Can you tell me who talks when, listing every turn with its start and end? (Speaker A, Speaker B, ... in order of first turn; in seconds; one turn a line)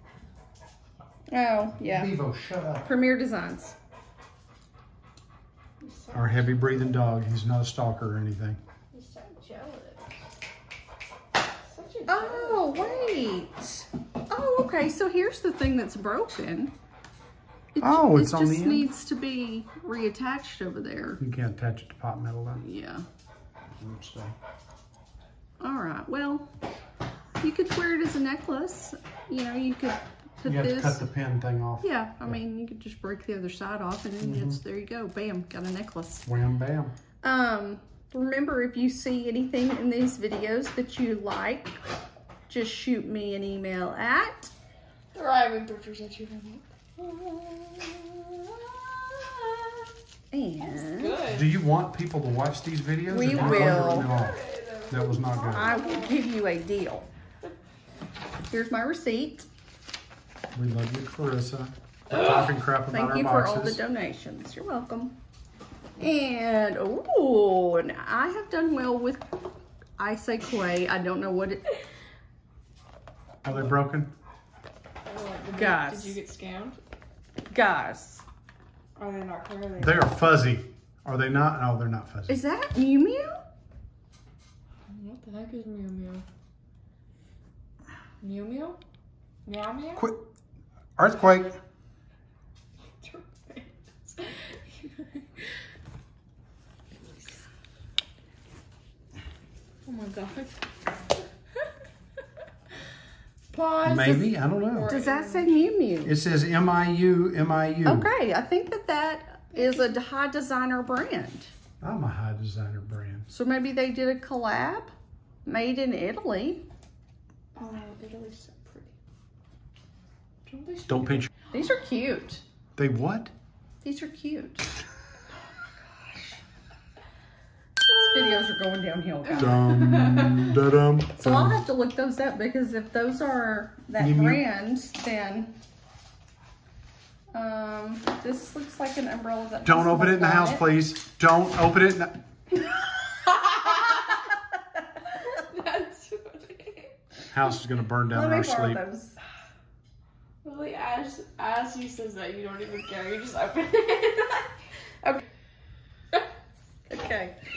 Speaker A: 1.3-2.2
Speaker B: 1.8-2.9
Speaker A: 2.8-3.8
Speaker C: 5.8-7.0
Speaker B: 6.1-8.6
Speaker C: 8.9-10.0
Speaker C: 11.7-13.3
Speaker A: 12.1-16.7
Speaker A: 17.8-21.2
Speaker B: 17.8-18.9
Speaker B: 21.2-22.6
Speaker A: 22.6-23.0
Speaker B: 23.8-24.3
Speaker A: 25.6-26.5
Speaker A: 27.4-31.0
Speaker B: 30.4-32.4
Speaker A: 31.8-36.2
Speaker B: 34.2-34.6
Speaker B: 36.2-36.9
Speaker A: 37.2-41.8
Speaker A: 42.5-44.5
Speaker C: 45.1-49.9
Speaker A: 50.3-51.2
Speaker C: 50.6-51.5
Speaker B: 51.3-54.4
Speaker A: 53.1-54.1
Speaker C: 53.2-56.2
Speaker B: 54.9-55.7
Speaker A: 55.5-57.1
Speaker A: 58.5-59.5
Speaker B: 60.5-63.8
Speaker C: 62.1-62.5
Speaker A: 62.9-65.1
Speaker A: 66.0-69.2
Speaker A: 70.0-71.6
Speaker B: 73.4-74.1
Speaker C: 75.0-76.8
Speaker A: 75.5-76.2
Speaker A: 77.5-78.2
Speaker C: 79.0-80.2
Speaker B: 79.8-82.4
Speaker A: 82.3-83.4
Speaker C: 84.9-86.2
Speaker C: 88.2-88.8
Speaker C: 89.5-90.1
Speaker B: 90.0-90.2
Speaker B: 91.0-91.6
Speaker C: 93.0-95.5
Speaker C: 99.8-100.5
Speaker C: 103.5-105.5
Speaker B: 103.8-104.9
Speaker A: 104.9-106.1
Speaker B: 106.0-108.1
Speaker A: 107.8-111.5
Speaker C: 109.5-110.0
Speaker B: 111.8-113.3
Speaker A: 113.3-114.9
Speaker A: 115.4-116.6
Speaker C: 117.5-118.9
Speaker C: 120.5-121.3
Speaker B: 120.9-121.3
Speaker A: 121.5-122.4
Speaker B: 122.8-123.3
Speaker A: 123.8-124.7
Speaker A: 125.8-126.4
Speaker A: 127.9-129.6
Speaker C: 127.9-128.5
Speaker C: 129.2-130.6
Speaker B: 129.4-131.6
Speaker A: 131.2-135.5
Speaker B: 134.0-134.4
Speaker A: 137.3-140.6
Speaker B: 139.6-142.2
Speaker C: 143.2-144.2
Speaker C: 145.1-146.9
Speaker B: 147.3-148.8
Speaker A: 148.1-149.2
Speaker C: 150.4-154.5
Speaker A: 156.9-157.4